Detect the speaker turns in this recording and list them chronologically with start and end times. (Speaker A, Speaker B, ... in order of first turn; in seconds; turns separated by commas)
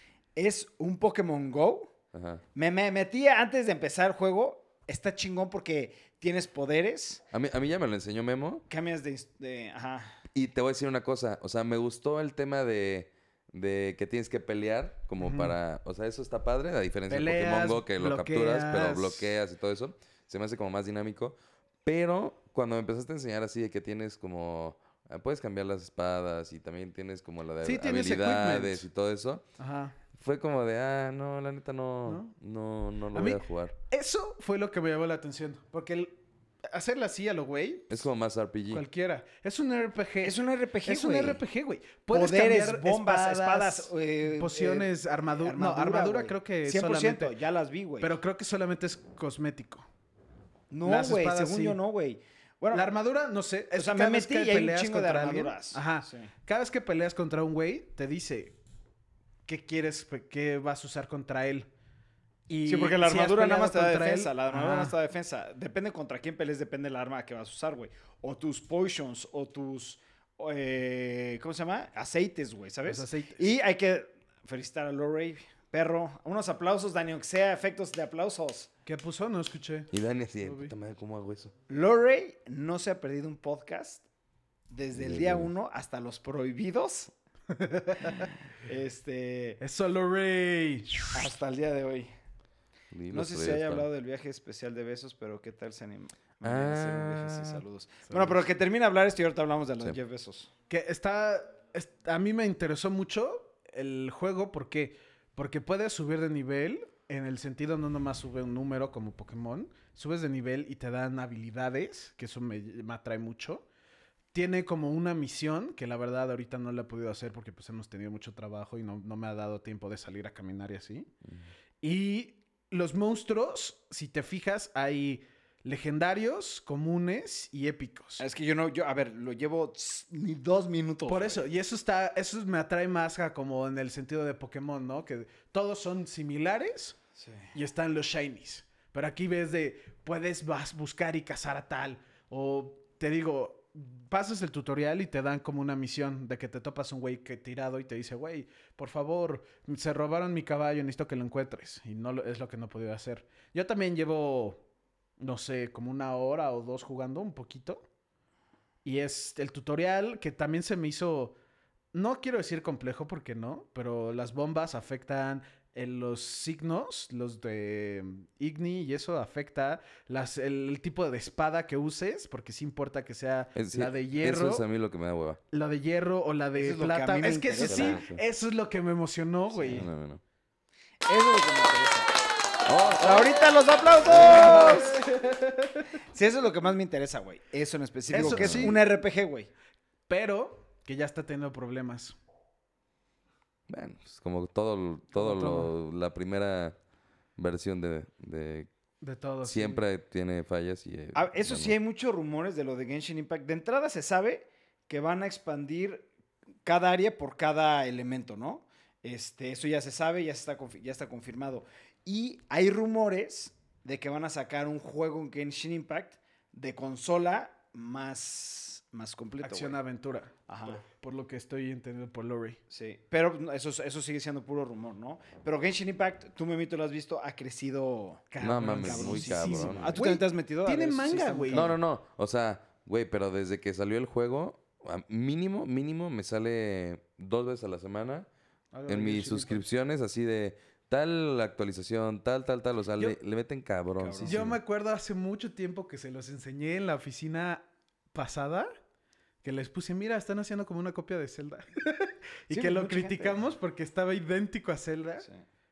Speaker A: 0.4-1.9, Speaker B: 2.1-2.4, Speaker A: 2.5-7.2, Speaker B: 7.3-8.7, Speaker A: 8.7-10.2, Speaker B: 10.3-29.4, Speaker C: 15.2-15.5, Speaker C: 17.1-19.4, Speaker C: 27.6-28.9, Speaker C: 29.6-30.0, Speaker B: 30.1-33.8, Speaker C: 32.1-32.4, Speaker C: 33.1-38.0, Speaker B: 37.9-38.8, Speaker C: 38.7-47.3, Speaker A: 40.2-41.4, Speaker A: 42.1-48.2, Speaker C: 48.0-49.9, Speaker A: 50.7-52.9, Speaker C: 50.8-51.8, Speaker C: 52.7-58.6, Speaker A: 53.8-56.3, Speaker C: 59.5-61.7, Speaker C: 62.5-65.0, Speaker A: 62.7-78.7, Speaker C: 72.8-73.4, Speaker C: 78.9-80.7, Speaker B: 79.9-81.5, Speaker A: 81.7-84.0, Speaker A: 84.7-87.1, Speaker B: 84.9-85.5, Speaker C: 87.5-88.3, Speaker A: 88.0-89.6, Speaker C: 89.6-91.2, Speaker A: 91.1-92.1, Speaker B: 92.9-93.9, Speaker A: 93.1-100.5, Speaker B: 96.4-97.6, Speaker C: 98.1-98.4, Speaker C: 100.7-113.7, Speaker C: 114.3-121.1, Speaker C: 121.8-128.2, Speaker A: 128.2-131.4, Speaker C: 131.1-137.0, Speaker A: 137.2-137.5, Speaker C: 137.5-154.6, Speaker C: 155.2-157.9, Speaker C: 158.8-161.4, Speaker C: 161.9-174.7, Speaker B: 173.6-175.4, Speaker C: 175.5-179.9, Speaker A: 176.6-178.0, Speaker B: 177.6-178.2, Speaker B: 179.6-180.2, Speaker A: 181.1-182.1, Speaker B: 182.7-183.4, Speaker A: 182.9-185.1, Speaker C: 184.1-185.9, Speaker B: 184.1-184.8, Speaker A: 186.1-189.5, Speaker C: 188.1-188.8, Speaker B: 188.2-188.8, Speaker C: 190.1-192.2, Speaker B: 193.7-196.8, Speaker C: 195.1-195.7, Speaker B: 197.4-198.7, Speaker C: 199.0-199.8, Speaker B: 199.4-201.8, Speaker A: 201.1-206.1, Speaker A: 206.7-219.8, Speaker C: 219.4-222.6, Speaker A: 220.5-220.8, Speaker A: 222.7-231.8, Speaker C: 228.3-231.7, Speaker B: 228.4-230.0, Speaker B: 231.5-238.3, Speaker C: 238.7-239.7, Speaker B: 238.9-244.6, Speaker A: 244.0-244.5, Speaker C: 244.2-248.7, Speaker C: 249.4-255.3, Speaker A: 252.5-253.4